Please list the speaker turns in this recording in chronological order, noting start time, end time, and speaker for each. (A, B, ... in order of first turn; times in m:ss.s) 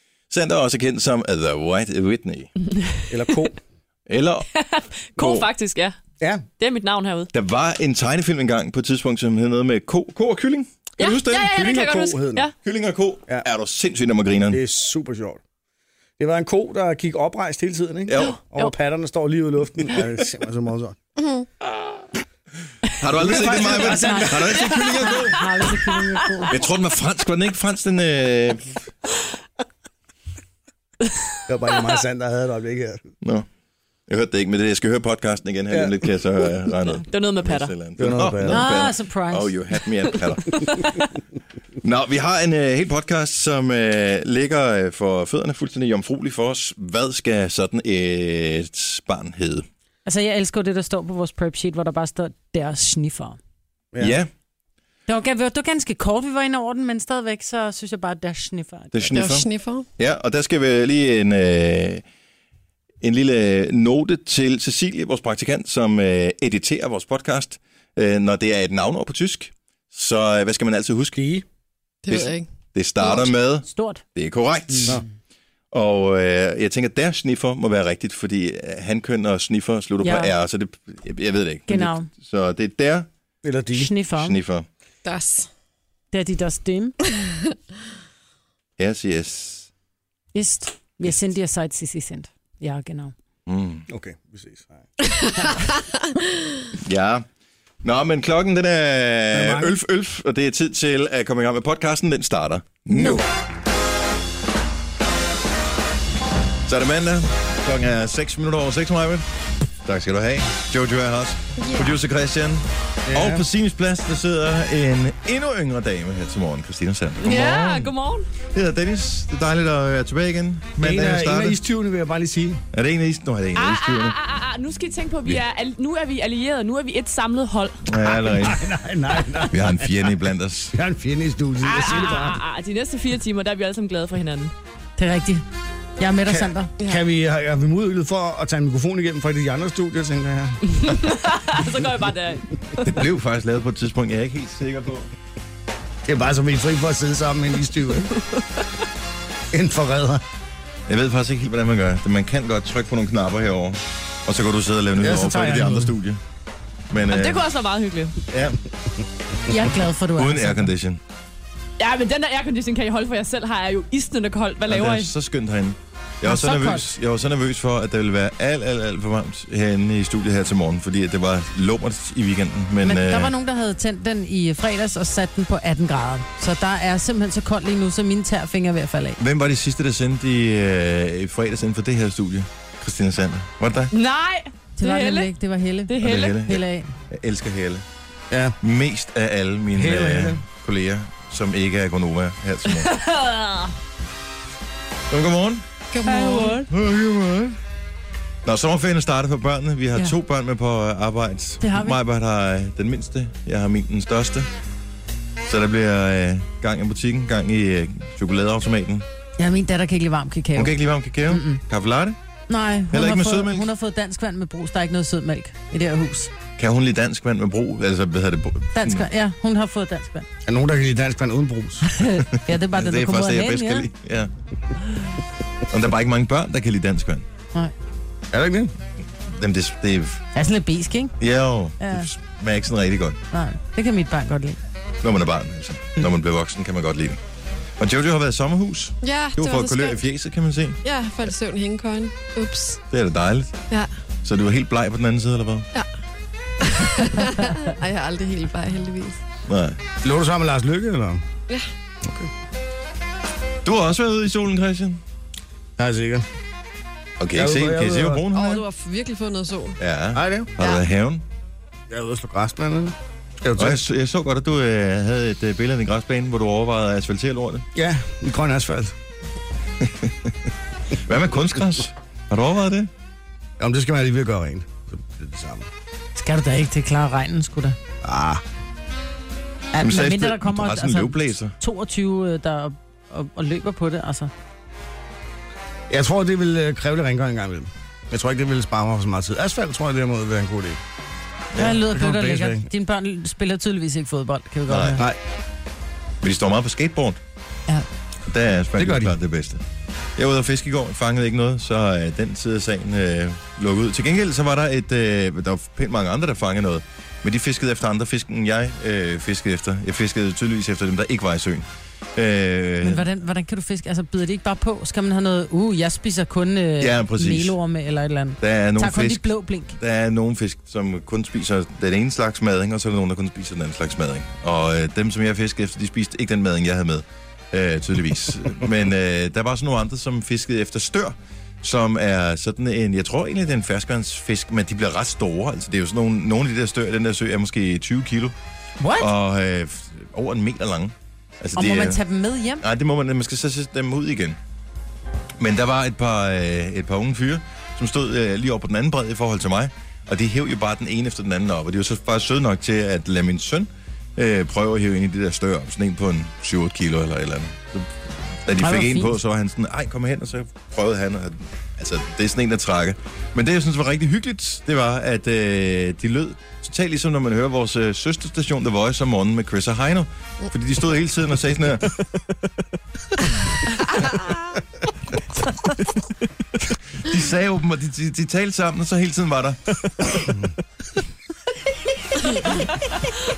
0:00.3-0:02.5 A
0:02.8-0:03.5 B
0:03.1-0:03.6 C
0:04.1-0:04.5 A
0:04.5-0:06.0 B
0:05.2-0:05.5 A
0:06.6-0:07.3 B
0:07.3-0:11.5 A
0:11.0-0:12.5 B
0:11.3-0:12.5 C
0:12.6-0:14.6 A
0:14.5-0:15.4 C
0:16.2-0:21.0 C
0:18.1-0:18.4 A
0:18.2-0:18.7 B
0:21.2-0:21.5 D
0:23.0-0:25.4 A
0:23.1-0:26.5 C
0:23.9-0:26.4 E
0:26.5-0:28.8 A
0:31.5-0:33.1 C
0:33.2-0:33.5 A
0:34.1-0:40.8 A
0:35.7-0:36.0 C
0:37.0-0:37.7 B
0:38.0-0:38.7 C
0:38.5-0:39.6 E
0:41.8-0:49.7 A
0:50.1-0:53.4 E
0:54.0-0:54.3 A
0:55.1-0:59.0 E
0:58.9-1:02.0 A
0:59.1-0:59.9 D
1:03.0-1:11.2 A
1:11.1-1:11.4 C
1:12.0-1:12.5 D
1:12.1-1:15.0 A
1:13.0-1:14.0 E
1:15.7-1:23.1 A
1:20.0-1:20.3 E
1:21.7-1:22.1 E
1:23.4-1:23.9 C
1:23.7-1:24.4 E
1:24.2-1:24.6 A
1:25.0-1:25.5 D
1:26.1-1:27.0 E
1:28.8-1:29.7 A
1:30.3-1:33.1 E
1:33.5-1:33.9 A
1:33.9-1:34.9 C
1:35.0-1:36.1 D
1:36.8-1:37.2 A
1:37.8-1:43.2 A
1:39.3-1:39.8 C
1:46.7-1:49.3 A
1:49.8-1:57.9 A
1:51.6-1:52.0 D
1:53.1-1:53.4 C
1:57.2-1:58.3 B
1:58.5-2:01.6 A
2:00.8-2:02.6 C
2:02.7-2:04.2 A
2:03.6-2:08.2 B
2:07.9-2:08.6 A
2:08.3-2:12.4 C
2:09.5-2:10.8 A
2:11.6-2:14.5 B
2:15.0-2:15.4 E
2:16.0-2:16.7 E
2:16.3-2:20.8 C
2:20.7-2:23.0 B
2:22.8-2:25.1 A
2:26.1-2:28.1 C
2:28.1-2:28.6 B
2:29.5-2:30.2 C
2:30.9-2:36.2 A
2:35.0-2:36.0 C
2:36.9-2:37.4 A
2:37.1-2:38.2 B
2:38.3-2:39.6 C
2:39.5-2:40.7 E
2:40.2-2:41.0 A
2:41.8-2:45.1 B
2:44.7-2:53.3 A
2:46.2-2:46.9 E
2:52.8-2:59.2 E
2:59.2-3:03.9 A
3:03.9-3:05.3 B
3:04.8-3:06.9 E
3:05.9-3:06.4 B
3:06.0-3:07.8 A
3:08.3-3:08.6 C
3:08.6-3:12.9 A
3:09.7-3:10.4 C
3:12.7-3:13.7 B
3:15.1-3:15.6 A
3:15.9-3:16.6 D
3:16.1-3:16.6 E
3:16.4-3:16.6 B
3:16.5-3:17.6 A
3:18.4-3:24.5 A
3:21.6-3:22.0 E
3:25.5-3:29.0 A
3:29.4-3:30.8 E
3:30.6-3:32.2 A
3:31.3-3:31.6 E
3:32.5-3:36.3 E
3:32.9-3:33.7 A
3:36.6-3:39.1 A
3:38.8-3:40.3 E
3:40.5-3:41.9 C
3:41.8-3:43.9 E
3:42.3-3:44.3 A
3:45.7-3:47.3 A
3:48.3-3:48.7 C
3:49.2-3:50.2 A
3:50.4-3:51.2 E
3:51.2-3:53.2 A
3:51.8-3:52.1 E
3:53.3-3:54.6 E
3:55.0-3:57.2 A
3:57.8-4:00.8 A
3:59.0-4:00.0 D
4:00.8-4:02.8 D
4:02.9-4:03.5 A
4:04.2-4:05.7 A
4:06.6-4:09.2 D
4:09.5-4:09.8 A
4:10.0-4:11.2 C
4:12.0-4:12.3 C
4:13.6-4:15.0 A
4:15.8-4:16.3 C
4:17.2-4:18.6 A
4:17.3-4:18.2 C
4:18.3-4:19.8 D
4:19.8-4:21.2 A
4:20.1-4:20.5 C
4:20.6-4:20.8 D
4:21.9-4:23.8 C
4:23.6-4:27.7 A
4:27.8-4:28.9 C
4:29.8-4:30.4 A
4:30.9-4:32.9 A
4:33.6-4:35.7 C
4:36.2-4:37.8 E
4:38.0-4:38.4 C
4:39.7-4:44.3 E
4:39.8-4:41.5 A
4:45.9-4:50.8 C
4:51.5-4:51.8 A
4:51.6-4:55.0 E
4:51.8-4:52.7 C
4:54.7-4:55.0 A
4:56.2-4:57.2 A
4:58.3-4:59.6 A
4:58.8-4:59.1 C
5:00.2-5:13.1 A
5:12.8-5:19.7 E
5:16.8-5:17.6 A
5:18.4-5:38.3 A
5:38.8-5:39.1 E
5:39.0-5:42.0 A
5:41.6-5:42.6 E
5:42.6-5:44.4 A
5:45.4-5:57.9 A
5:58.4-6:12.0 A
5:58.6-5:59.2 E
6:16.8-6:19.8 A
6:22.4-6:23.1 E